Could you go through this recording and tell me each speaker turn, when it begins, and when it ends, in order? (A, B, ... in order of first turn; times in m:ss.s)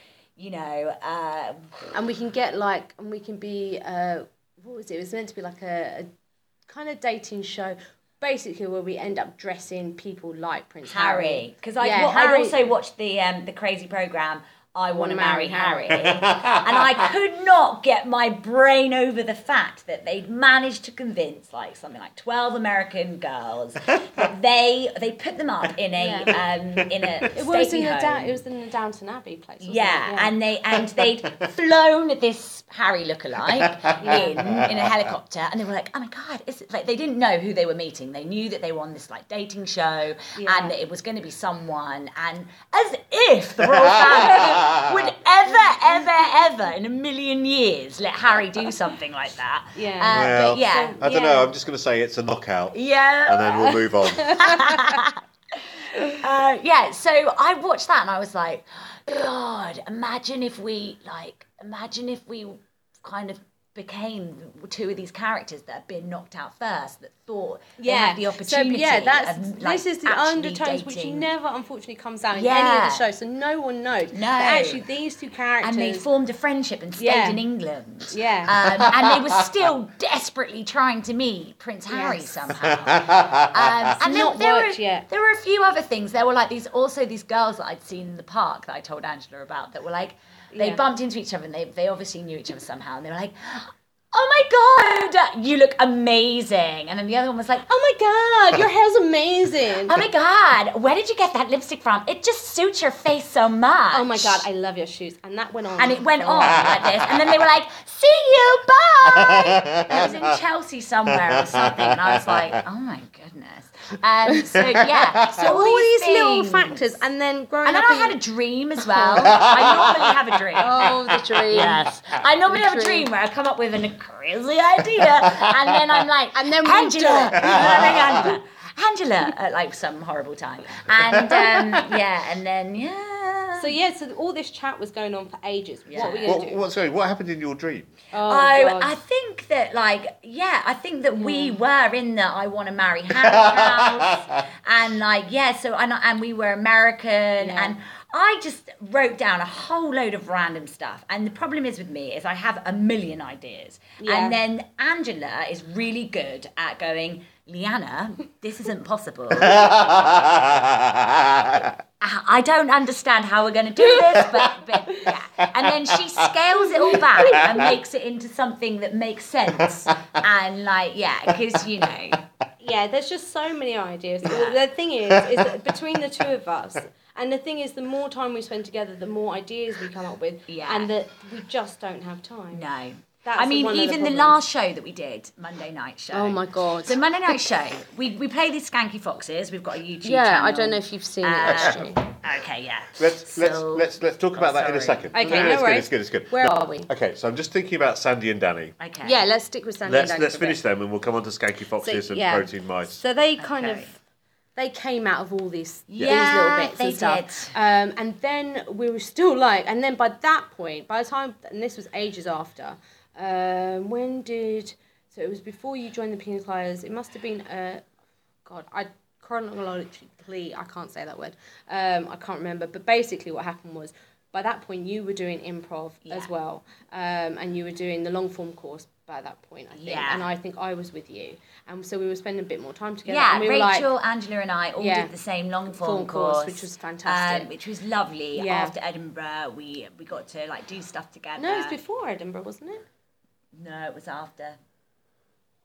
0:00.4-0:01.9 A
0:01.9-0:06.1 B
0:06.7-0:12.6 B
0:10.9-0:28.4 A
0:14.9-0:16.1 B
0:26.0-0:26.3 B
0:27.3-0:30.4 B
0:29.6-0:51.0 A
0:33.6-0:34.9 C
0:34.0-0:34.4 B
0:40.4-0:40.8 B
0:43.7-0:44.9 C
0:49.8-0:51.5 B
0:50.1-0:54.5 C
0:52.7-1:11.3 A
0:54.4-0:54.7 B
1:07.8-1:16.1 B
1:12.3-1:13.0 A
1:14.1-1:14.8 A
1:15.6-1:37.7 A
1:17.0-1:17.4 B
1:18.1-1:18.6 B
1:18.8-1:19.2 C
1:21.9-1:22.3 B
1:22.7-1:23.8 C
1:24.0-1:25.1 B
1:30.5-1:30.8 B
1:37.7-1:40.0 B
1:39.9-1:44.4 A
1:43.9-1:46.7 B
1:45.8-1:57.0 A
1:49.1-1:50.2 C
1:51.3-1:52.4 C
1:54.3-1:58.2 B
1:57.6-2:13.8 A
1:58.8-1:59.4 B
1:59.4-2:00.1 C
2:00.6-2:01.9 B
2:02.5-2:03.1 B
2:06.3-2:08.0 B
2:07.4-2:08.3 C
2:13.6-2:16.6 B
2:15.9-2:16.4 A
2:16.2-2:17.9 C
2:18.1-2:18.9 B
2:18.3-2:40.3 A
2:21.2-2:21.6 B
2:23.5-2:23.8 C
2:27.4-2:27.8 B
2:34.0-2:34.4 B
2:39.5-2:41.7 C
2:42.0-2:52.2 A
2:46.8-2:47.6 B
2:52.6-3:02.7 B
2:54.2-2:54.6 A
3:00.5-3:00.9 A
3:02.5-3:15.6 A
3:03.2-3:04.4 B
3:06.1-3:07.0 B
3:10.0-3:12.0 B
3:11.4-3:11.9 C
3:13.0-3:18.8 C
3:15.1-3:16.9 B
3:18.8-3:19.2 A
3:19.0-3:20.6 B
3:19.8-3:23.0 C
3:21.8-3:24.0 B
3:23.4-3:23.9 A
3:24.6-3:37.8 B
3:25.9-3:27.6 A
3:26.0-3:26.3 C
3:38.4-3:53.9 B
3:49.7-3:50.3 A
3:53.1-4:01.8 A
3:54.8-3:55.1 B
3:55.7-3:57.5 B
3:58.4-3:58.7 B
4:01.4-4:02.8 B
4:03.5-4:04.6 A